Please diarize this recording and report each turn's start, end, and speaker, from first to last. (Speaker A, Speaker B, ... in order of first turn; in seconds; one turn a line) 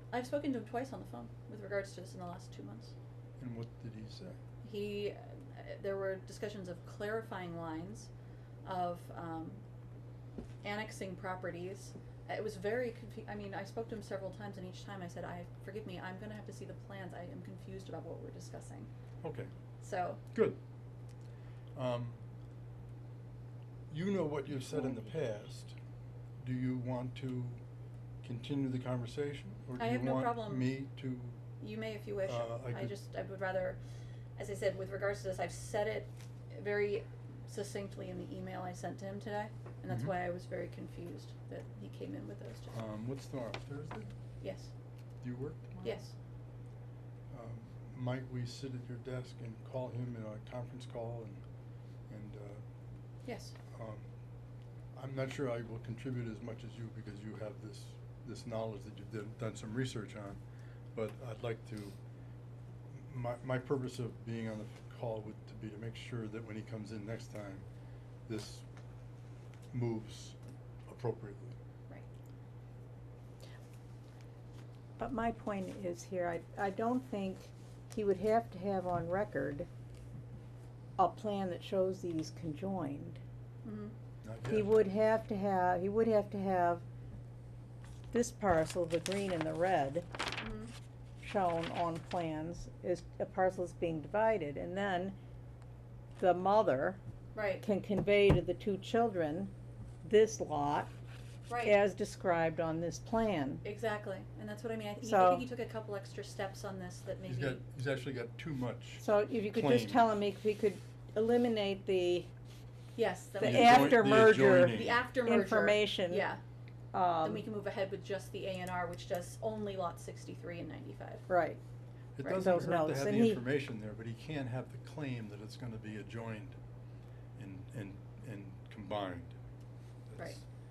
Speaker A: 0.1-3.0
Speaker B: 3.4-4.4
Speaker A: 4.6-8.1
Speaker A: 8.6-9.6
Speaker A: 10.6-18.9
Speaker B: 19.2-19.5
Speaker A: 19.8-20.2
Speaker B: 20.3-20.6
Speaker B: 21.8-22.2
Speaker B: 23.9-25.8
Speaker B: 26.4-27.6
Speaker B: 28.2-31.4
Speaker A: 29.8-30.7
Speaker A: 31.6-33.8
Speaker B: 32.3-33.0
Speaker A: 34.4-42.8
Speaker B: 39.9-40.1
Speaker B: 42.7-44.1
Speaker A: 44.4-44.7
Speaker B: 45.2-45.9
Speaker A: 45.8-46.1
Speaker B: 47.3-51.4
Speaker B: 52.1-52.6
Speaker A: 53.2-53.6
Speaker B: 53.7-54.1
Speaker B: 55.0-60.4
Speaker B: 60.9-62.0
Speaker B: 62.9-67.7
Speaker B: 68.3-68.7
Speaker B: 69.7-70.4
Speaker B: 70.9-71.6
Speaker C: 75.0-79.7
Speaker C: 81.0-83.2
Speaker A: 83.6-84.0
Speaker B: 84.2-84.8
Speaker C: 84.5-86.8
Speaker C: 88.1-90.1
Speaker A: 90.4-90.7
Speaker C: 91.2-95.2
Speaker C: 96.2-97.0
Speaker A: 97.3-97.6
Speaker C: 97.6-99.5
Speaker C: 100.0-100.9
Speaker A: 101.5-101.8
Speaker C: 101.6-103.6
Speaker A: 103.6-107.6
Speaker C: 105.0-105.5
Speaker B: 107.2-110.0
Speaker C: 109.0-112.3
Speaker A: 113.0-114.0
Speaker C: 113.4-116.3
Speaker B: 113.4-115.0
Speaker A: 114.6-116.4
Speaker C: 116.9-117.5
Speaker A: 117.2-121.3
Speaker C: 121.3-121.6
Speaker B: 122.2-126.6
Speaker C: 122.3-123.4
Speaker B: 127.4-129.4
Speaker B: 130.1-130.4